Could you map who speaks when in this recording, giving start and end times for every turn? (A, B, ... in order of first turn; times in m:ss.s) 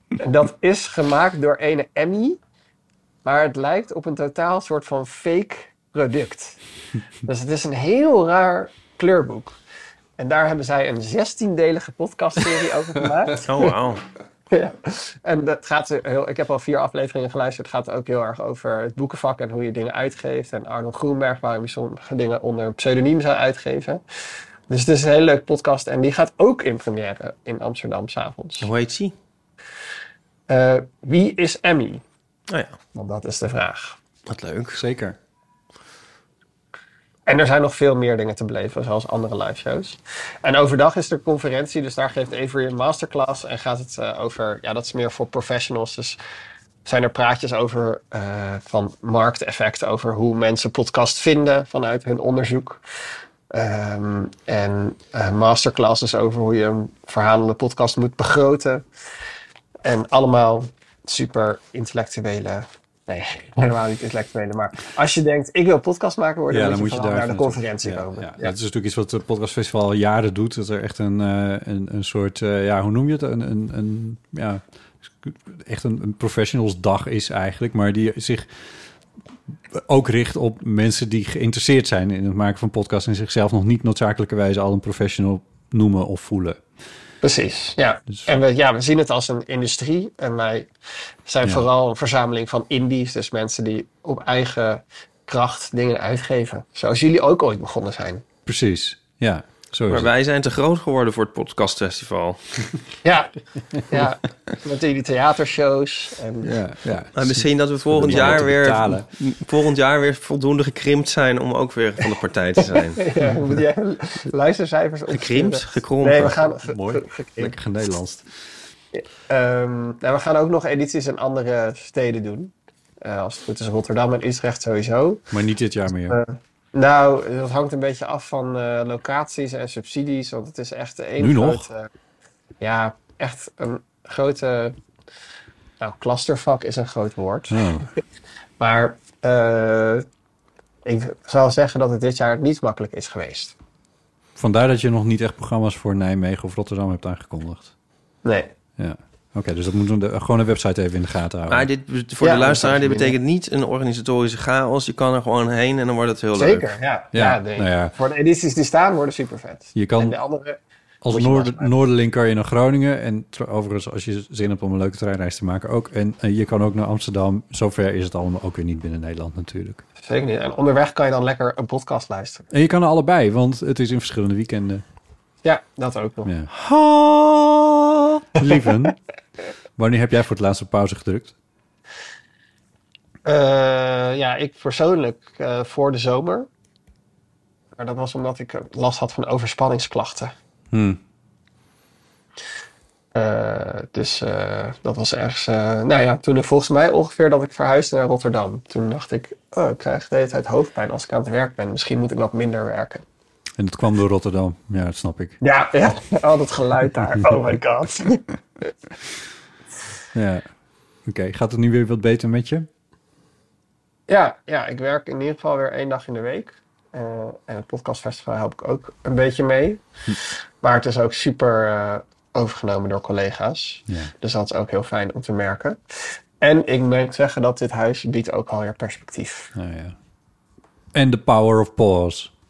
0:00.2-0:02.4 A
0:03.2-0:06.6 A
0:07.3-0:09.6 A
0:10.2-0:13.7 A
0:13.4-0:14.0 B
0:14.5-0:24.0 A
0:24.7-0:28.7 A
0:28.6-0:29.1 B
0:30.5-0:32.0 A
0:32.5-0:32.8 B
0:33.0-0:34.0 A
0:34.3-0:34.8 B
0:34.7-0:35.2 C
0:37.3-0:46.2 A
0:46.8-0:52.8 A
0:53.5-0:58.8 A
0:59.8-1:08.5 A
1:06.5-1:18.5 C
1:19.7-1:26.6 C
1:27.2-1:30.7 A
1:31.3-1:38.2 A
1:38.5-1:40.1 C
1:39.9-1:42.4 B
1:43.0-1:43.3 A
1:43.9-1:46.5 A
1:46.4-1:49.1 C
1:47.2-1:53.0 B
1:53.0-1:57.5 A
1:55.1-1:56.4 B
1:56.6-1:58.2 C
1:59.0-2:05.2 A
2:05.3-2:06.2 C
2:06.0-2:11.9 A
2:11.2-2:11.7 C
2:12.6-2:14.8 A
2:15.8-2:18.0 A
2:17.5-2:17.9 C
2:18.6-2:20.0 A
2:20.8-2:23.5 A
2:24.4-2:27.7 C
2:28.2-2:28.5 A
2:28.8-2:31.7 C
2:31.5-2:36.7 B
2:32.2-2:33.2 A
2:36.4-2:41.7 A
2:37.1-2:38.0 C
2:39.8-2:40.2 C
2:41.0-2:49.8 C
2:50.0-2:52.4 A
2:52.5-2:54.8 C
2:55.4-2:56.3 A
2:56.2-2:56.5 C
2:56.7-2:57.7 B
2:58.4-2:59.0 C
2:59.8-3:01.3 C
3:03.2-3:06.5 A
3:07.8-3:10.3 A
3:10.7-3:11.0 C
3:13.2-3:23.0 A
3:23.6-3:25.4 C
3:25.4-3:28.2 A
3:30.1-3:30.5 C
3:31.1-3:32.7 C
3:34.1-3:45.8 A
3:46.4-3:49.5 A
3:49.6-3:50.0 C
3:51.0-3:52.3 C